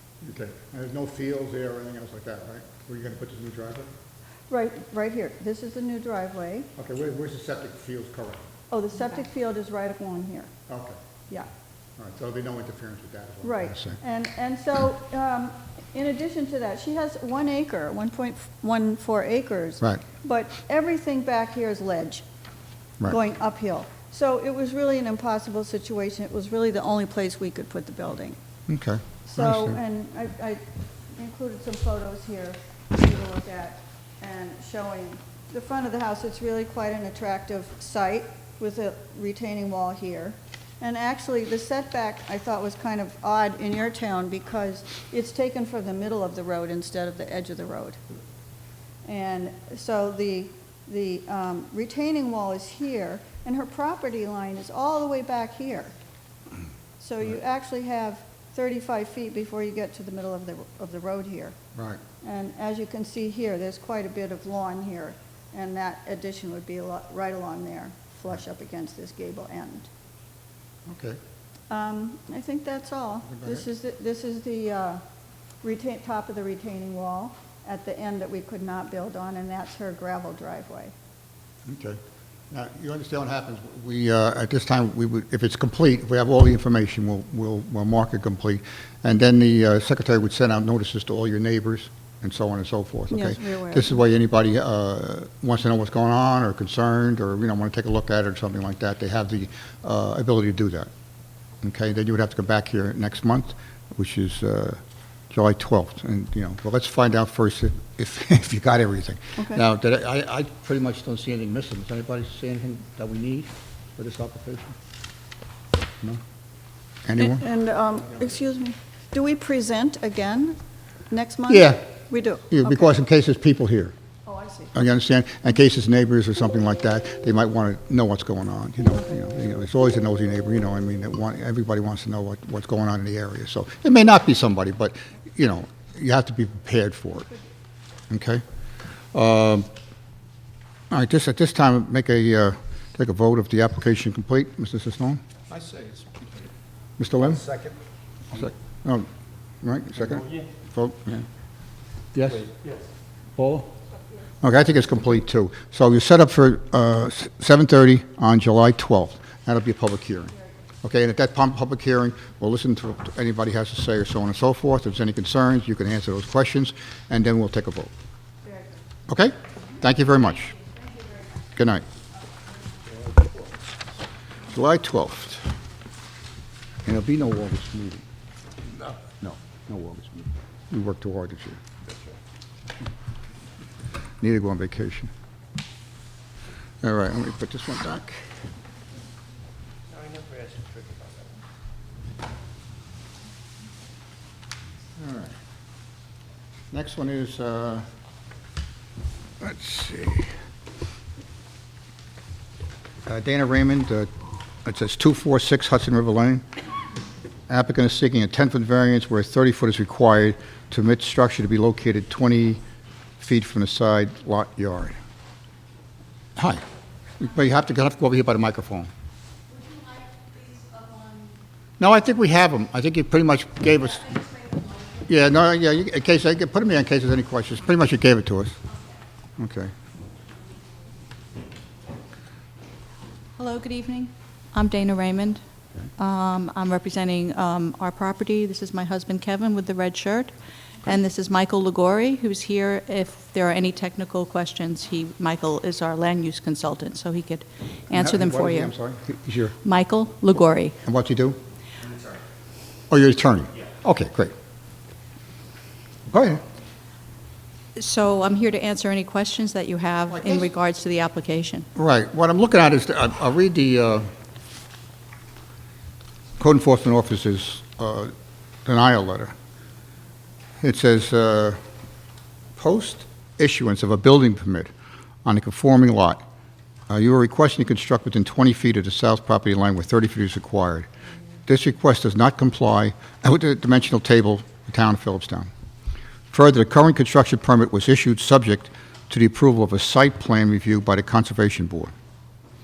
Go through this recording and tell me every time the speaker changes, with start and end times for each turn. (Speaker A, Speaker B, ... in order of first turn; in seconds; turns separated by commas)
Speaker A: 0.2-3.9, Speaker B: 4.5-6.7, Speaker A: 6.8-8.4, Speaker B: 8.7-10.5, Speaker A: 10.7-11.0, Speaker A: 12.0-14.0, Speaker B: 13.4-22.2, Speaker B: 23.1-28.4, Speaker A: 28.7-29.8, Speaker B: 29.2-48.0, Speaker B: 49.0-55.9, Speaker B: 57.0-61.6, Speaker A: 61.7-62.0, Speaker B: 62.2-69.9, Speaker A: 70.9-71.2, Speaker B: 71.7-75.0, Speaker A: 73.2-73.6, Speaker B: 75.6-80.9, Speaker A: 81.6-82.0, Speaker A: 82.5-100.9, Speaker B: 93.1-94.0, Speaker A: 101.6-104.8, Speaker A: 105.3-114.8, Speaker B: 109.3-109.6, Speaker A: 117.0-117.4, Speaker B: 117.2-122.9, Speaker A: 121.5-121.8, Speaker A: 122.5-123.9, Speaker B: 124.2-124.7, Speaker A: 124.7-137.3, Speaker A: 138.1-138.4, Speaker A: 139.1-139.7, Speaker A: 140.9-145.2, Speaker C: 145.5-146.4, Speaker A: 147.0-147.5, Speaker A: 148.3-149.1, Speaker A: 149.6-151.3, Speaker A: 152.1-152.5, Speaker C: 152.5-152.8, Speaker A: 154.4-167.9, Speaker A: 169.1-170.6, Speaker A: 171.5-171.8, Speaker A: 174.5-175.5, Speaker A: 176.8-178.0, Speaker A: 178.8-181.6, Speaker A: 184.2-185.1, Speaker A: 186.8-188.2, Speaker C: 189.9-191.4, Speaker A: 195.0-195.3, Speaker A: 196.7-197.8, Speaker A: 199.4-200.3, Speaker A: 203.0-204.1, Speaker A: 204.6-206.4, Speaker A: 207.5-212.6, Speaker A: 213.2-214.9, Speaker A: 216.4-216.6, Speaker A: 217.2-218.9, Speaker D: 219.8-221.3, Speaker A: 221.8-228.6, Speaker A: 229.4-229.7, Speaker D: 233.4-235.4, Speaker D: 236.0-248.7, Speaker A: 247.9-249.6, Speaker D: 249.6-250.8, Speaker A: 250.8-251.4, Speaker A: 252.9-254.3, Speaker A: 256.1-256.4, Speaker D: 257.8-261.7, Speaker A: 260.1-260.4, Speaker A: 261.7-264.1, Speaker A: 266.4-268.1, Speaker A: 268.6-269.3, Speaker A: 270.6-271.6, Speaker A: 272.6-274.7, Speaker A: 275.2-276.2, Speaker A: 276.9-280.9, Speaker A: 281.5-285.5, Speaker A: 286.3-291.9